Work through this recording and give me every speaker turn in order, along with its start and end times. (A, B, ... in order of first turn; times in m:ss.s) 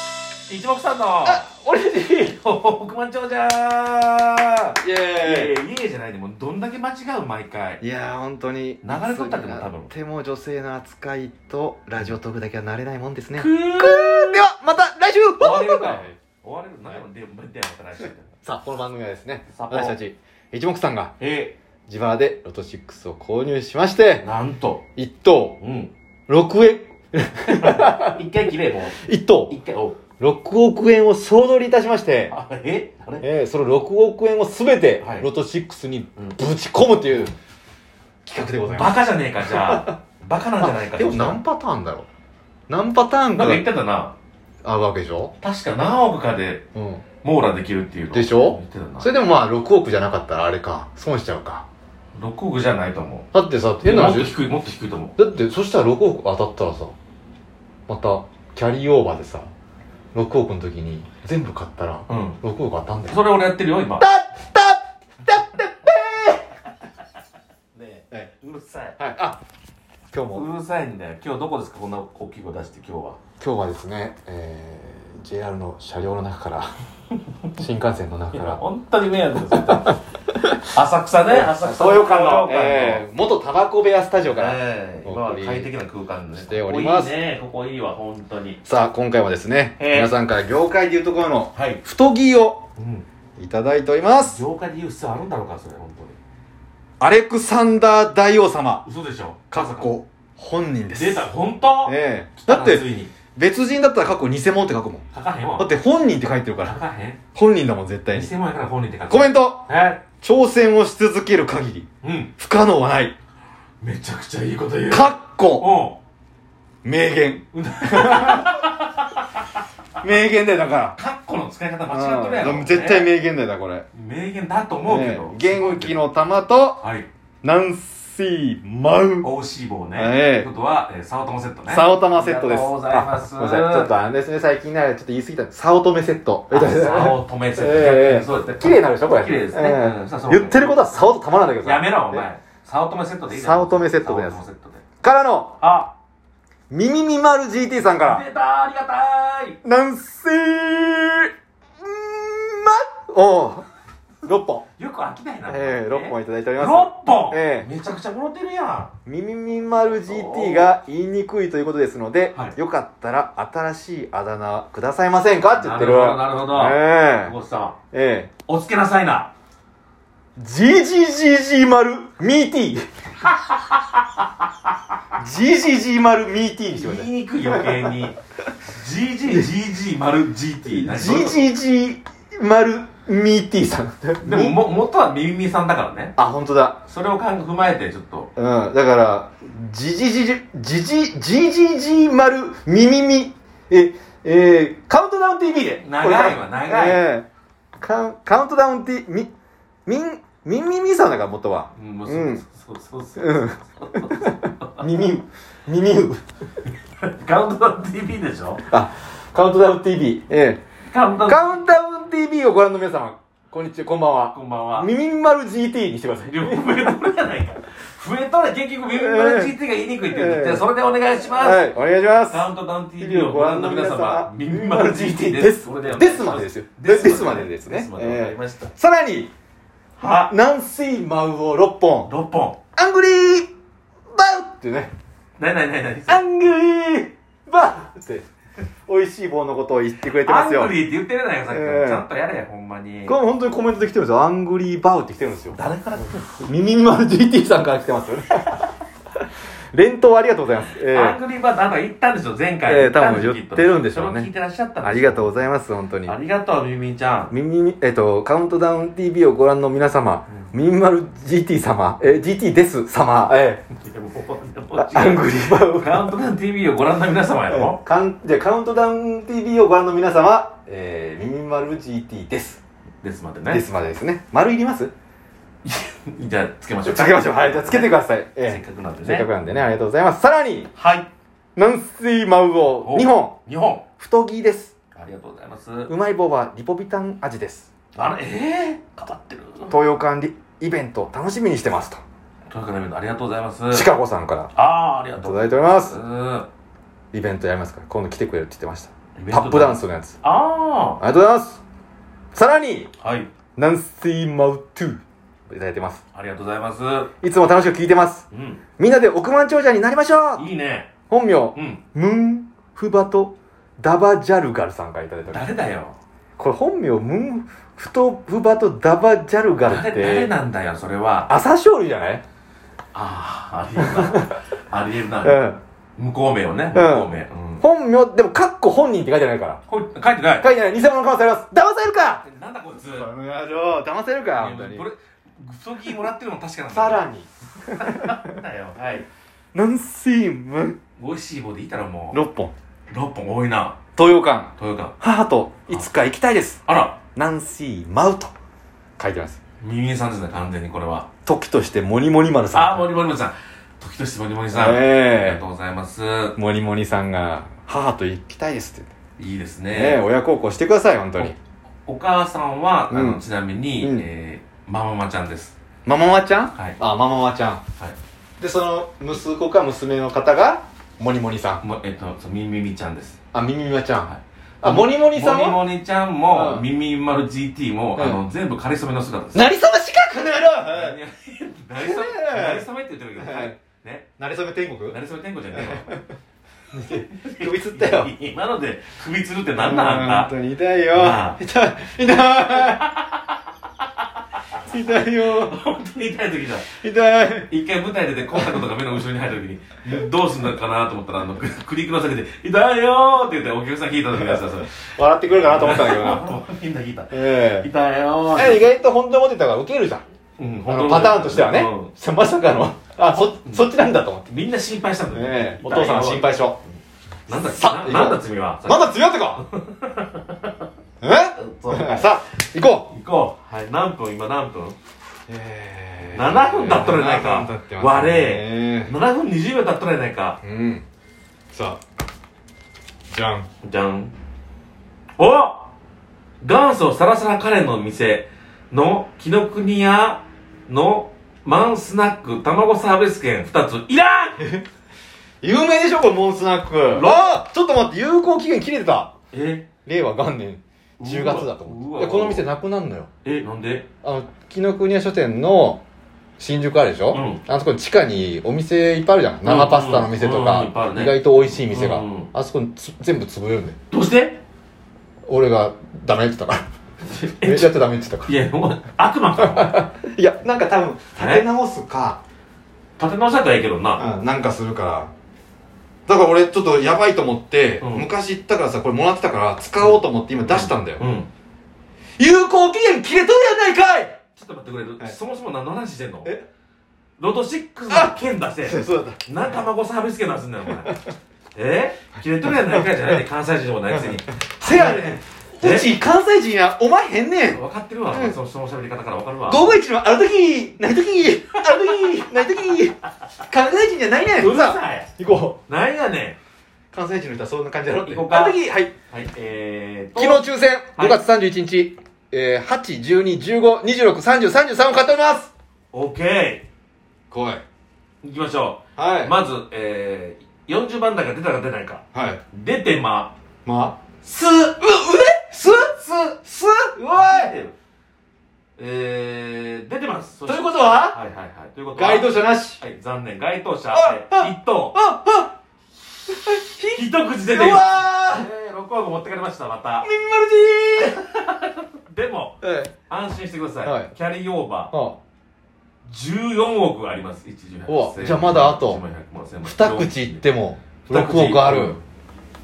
0:00.5-0:07.8 A
0:01.2-0:01.6 B
0:04.8-0:05.6 B
0:07.8-0:16.2 B
0:08.8-0:09.9 A
0:13.4-0:14.4 A
0:15.4-0:18.3 A
0:18.4-0:21.1 B
0:19.5-0:20.0 A
0:21.2-0:21.6 A
0:21.9-0:24.3 B
0:24.2-0:24.8 A
0:25.0-0:25.6 B
0:25.6-0:25.9 A
0:26.3-0:28.2 B
0:27.5-0:30.0 A
0:29.0-0:29.6 B
0:30.2-0:32.3 B
0:32.3-0:33.3 A
0:33.2-0:37.3 B
0:35.0-0:35.3 A
0:38.3-0:40.0 B
0:38.7-0:41.4 A
0:40.6-0:42.1 B
0:42.7-0:43.6 B
0:43.3-0:44.2 A
0:44.6-0:45.4 B
0:45.4-0:46.6 A
0:46.8-0:47.0 B
0:47.2-0:49.1 A
0:48.1-0:51.6 B
0:52.2-0:53.3 A
0:53.3-0:54.3 B
0:53.8-0:55.2 A
0:55.2-0:57.0 B
0:57.9-0:59.5 B
1:00.1-1:03.2 B
1:02.1-1:02.4 A
1:03.1-1:04.0 A
1:04.0-1:06.5 B
1:07.8-1:09.0 A
1:09.0-1:09.4 B
1:10.1-1:10.5 B
1:10.3-1:13.2 A
1:13.4-1:16.8 B
1:17.5-1:18.6 B
1:18.3-1:20.0 A
1:19.7-1:20.7 B
1:20.6-1:23.0 A
1:21.3-1:25.7 B
1:24.2-1:28.6 A
1:26.4-1:27.1 B
1:28.6-1:32.6 B
1:29.8-1:30.1 A
1:31.6-1:31.8 A
1:32.8-1:33.1 A
1:33.4-1:34.4 B
1:34.2-1:36.2 A
1:37.0-1:38.8 B
1:38.8-1:39.9 A
1:39.5-1:41.3 B
1:40.9-1:43.1 A
1:41.8-1:45.0 B
1:45.1-1:45.8 A
1:45.6-1:46.8 B
1:46.6-1:47.2 A
1:47.4-1:48.3 B
1:48.1-1:50.0 A
1:49.1-1:49.7 B
1:50.2-1:53.2 B
1:52.0-1:52.3 A
1:53.8-1:56.0 A
1:54.9-1:55.7 B
1:56.8-1:58.7 B
1:57.5-1:59.3 A
2:00.0-2:01.0 B
2:01.0-2:03.1 A
2:01.9-2:03.9 B
2:03.9-2:06.0 A
2:04.9-2:06.8 B
2:06.8-2:07.1 A
2:07.4-2:09.3 B
2:09.2-2:13.9 A
2:10.0-2:10.5 B
2:11.7-2:22.3 B
2:16.5-2:21.1 A
2:21.6-2:24.8 A
2:23.3-2:24.4 B
2:25.0-2:25.6 B
2:25.6-2:25.9 A
2:26.7-2:28.2 B
2:27.9-2:29.6 A
2:29.6-2:33.7 B
2:34.2-2:34.7 B
2:34.8-2:38.9 A
2:35.5-2:37.7 B
2:39.1-2:47.4 B
2:40.0-2:40.8 A
2:45.5-2:47.8 A
2:47.9-2:48.3 B
2:48.5-2:49.3 A
2:50.4-2:52.9 B
2:55.2-2:57.9 B
2:56.8-2:58.2 A
2:58.7-3:01.4 A
3:00.7-3:04.6 B
3:04.2-3:06.2 A
3:06.2-3:06.8 B
3:06.9-3:08.3 A
3:08.4-3:17.3 B
3:15.8-3:17.1 A
3:17.8-3:19.3 B
3:19.9-3:22.4 B
3:21.8-3:24.9 A
3:23.2-3:26.2 B
3:27.0-3:28.6 A
3:28.7-3:30.6 B
3:30.9-3:31.6 A
3:31.3-3:37.1 B
3:34.3-3:34.9 A
3:36.3-3:41.7 A
3:38.9-3:39.5 B
3:40.1-3:40.6 B
3:41.3-3:42.5 B
3:42.3-3:48.7 A
3:43.0-3:49.3 B
3:50.0-3:50.3 A
3:50.0-3:52.1 B
3:52.1-3:52.6 A
3:52.8-3:53.5 B
3:54.1-3:54.9 B
3:55.4-3:56.2 A
3:56.1-3:58.3 B
3:58.9-4:00.7 B
4:00.0-4:03.2 A
4:01.5-4:02.0 B
4:03.1-4:05.6 B
4:05.5-4:06.4 A
4:06.4-4:08.7 B
4:09.7-4:11.2 B
4:10.8-4:15.4 A
4:12.7-4:14.3 B
4:14.8-4:16.2 B
4:16.0-4:17.3 A
4:17.3-4:23.6 B
4:23.7-4:27.8 A
4:24.8-4:26.1 B
4:27.5-4:32.6 B
4:33.0-4:33.6 A
4:33.5-4:34.9 B
4:35.6-4:39.3 A
4:36.8-4:40.7 B
4:40.8-4:41.1 A
4:41.6-4:43.4 B
4:42.8-4:43.9 A
4:44.0-4:44.7 B
4:44.9-4:45.9 A
4:45.9-4:47.7 B
4:48.0-4:49.7 A
4:49.7-4:52.0 B
4:52.5-4:53.9 A
4:53.7-4:54.5 B
4:54.5-4:56.5 A
4:55.2-4:56.0 B
4:57.1-5:00.2 B
4:59.2-5:01.0 A
5:01.0-5:01.6 B
5:02.3-5:02.9 B
5:03.0-5:03.3 A
5:03.6-5:06.0 B
5:06.1-5:07.1 A
5:07.2-5:08.3 B
5:08.3-5:08.6 A
5:08.8-5:10.4 B
5:10.4-5:10.9 A
5:11.1-5:15.5 B
5:11.6-5:11.8 A
5:15.3-5:16.0 A
5:16.4-5:20.3 B
5:19.6-5:21.3 A
5:21.3-5:22.2 B
5:22.9-5:25.4 A
5:23.8-5:24.3 B
5:25.2-5:25.6 B
5:26.0-5:27.6 A
5:26.7-5:29.6 B
5:29.7-5:30.5 A
5:30.4-5:32.2 B
5:32.2-5:33.1 A
5:32.9-5:34.9 B
5:34.4-5:37.0 A
5:36.7-5:38.4 B
5:37.7-5:39.1 A
5:39.5-5:40.8 B
5:41.0-5:42.2 A
5:42.1-5:42.5 B
5:42.9-5:43.8 A
5:44.0-5:46.6 B
5:44.6-5:45.0 A
5:46.7-5:47.0 A
5:47.1-5:48.3 B
5:49.0-5:49.4 B
5:49.6-5:51.1 A
5:51.2-5:52.9 B
5:52.5-5:56.4 A
5:54.5-5:55.4 B
5:56.4-5:58.9 B
5:59.2-6:00.0 A
5:59.7-6:01.4 B
6:01.9-6:05.6 A
6:02.9-6:03.2 B
6:03.8-6:04.1 B
6:05.9-6:07.6 B
6:08.4-6:11.6 B
6:11.6-6:13.2 A
6:13.3-6:15.6 B
6:14.0-6:19.5 A
6:16.3-6:16.6 B
6:18.0-6:18.2 B
6:19.3-6:21.0 B
6:20.7-6:24.1 A
6:21.8-6:22.6 B
6:23.2-6:23.6 B
6:24.2-6:25.0 B
6:24.9-6:25.9 A
6:25.6-6:26.0 B
6:26.7-6:28.1 B
6:26.8-6:30.3 A
6:29.6-6:32.9 B
6:30.9-6:31.4 A
6:32.6-6:33.0 A
6:34.5-6:35.6 B
6:35.2-6:36.7 A
6:36.7-6:37.5 B
6:37.5-6:48.7 A
6:44.1-6:46.4 B
6:47.1-6:47.7 B
6:48.3-6:50.0 B
6:50.4-6:51.9 A
6:50.7-6:54.3 B
6:53.0-6:53.8 A
6:54.3-6:56.6 A
6:55.1-6:56.6 B
6:57.3-7:00.6 A
6:57.3-6:59.4 B
7:01.0-7:02.9 B
7:01.4-7:02.1 A
7:02.9-7:04.8 A
7:05.3-7:08.9 B
7:06.1-7:10.4 A
7:10.4-7:10.8 B
7:11.5-7:11.8 B
7:13.1-7:13.5 B
7:13.6-7:14.1 A
7:15.2-7:15.7 A
7:16.4-7:24.4 A
7:24.4-7:24.6 B
7:25.4-7:29.1 B
7:26.9-7:27.4 A
7:29.3-7:29.7 A
7:29.9-7:33.1 B
7:31.0-7:32.5 A
7:33.2-7:33.9 A
7:34.0-7:35.8 B
7:36.4-7:43.8 B
7:37.1-7:37.4 A
7:39.4-7:42.3 A
7:43.9-7:44.4 A
7:45.3-7:46.6 B
7:47.0-7:49.8 A
7:47.4-7:48.3 B
7:49.4-7:52.2 B
7:51.2-7:51.5 A
7:53.0-7:54.0 A
7:54.0-7:55.1 B
7:56.1-8:01.0 B
7:57.8-7:58.1 A
7:59.8-8:01.3 A
8:02.2-8:04.2 B
8:04.4-8:06.3 A
8:07.2-8:11.0 A
8:07.9-8:09.2 B
8:11.6-8:15.9 A
8:12.4-8:13.2 B
8:13.9-8:18.4 B
8:17.5-8:19.8 A
8:19.5-8:25.6 B
8:21.6-8:22.4 A
8:24.4-8:25.1 A
8:25.7-8:26.4 A
8:26.9-8:28.9 B
8:27.9-8:31.2 A
8:30.2-8:35.5 B
8:35.9-8:36.7 A
8:37.3-8:37.6 B
8:38.2-8:43.3 A
8:39.0-8:39.4 B
8:42.1-8:42.4 B
8:43.6-8:44.0 B
8:44.2-8:44.8 A
8:44.8-8:47.5 B
8:45.7-8:46.2 A
8:47.1-8:47.8 A
8:48.8-8:55.0 A
8:50.5-8:51.2 B
8:51.9-8:52.8 B
8:53.9-8:55.5 B
8:56.3-8:58.5 B
8:56.9-9:00.1 A
9:00.0-9:01.2 B
9:01.0-9:02.6 A
9:02.6-9:02.9 B
9:03.1-9:04.9 A
9:03.8-9:04.1 B
9:04.9-9:05.2 B
9:06.1-9:10.4 A
9:07.9-9:09.0 B
9:09.6-9:12.0 B
9:11.0-9:12.0 A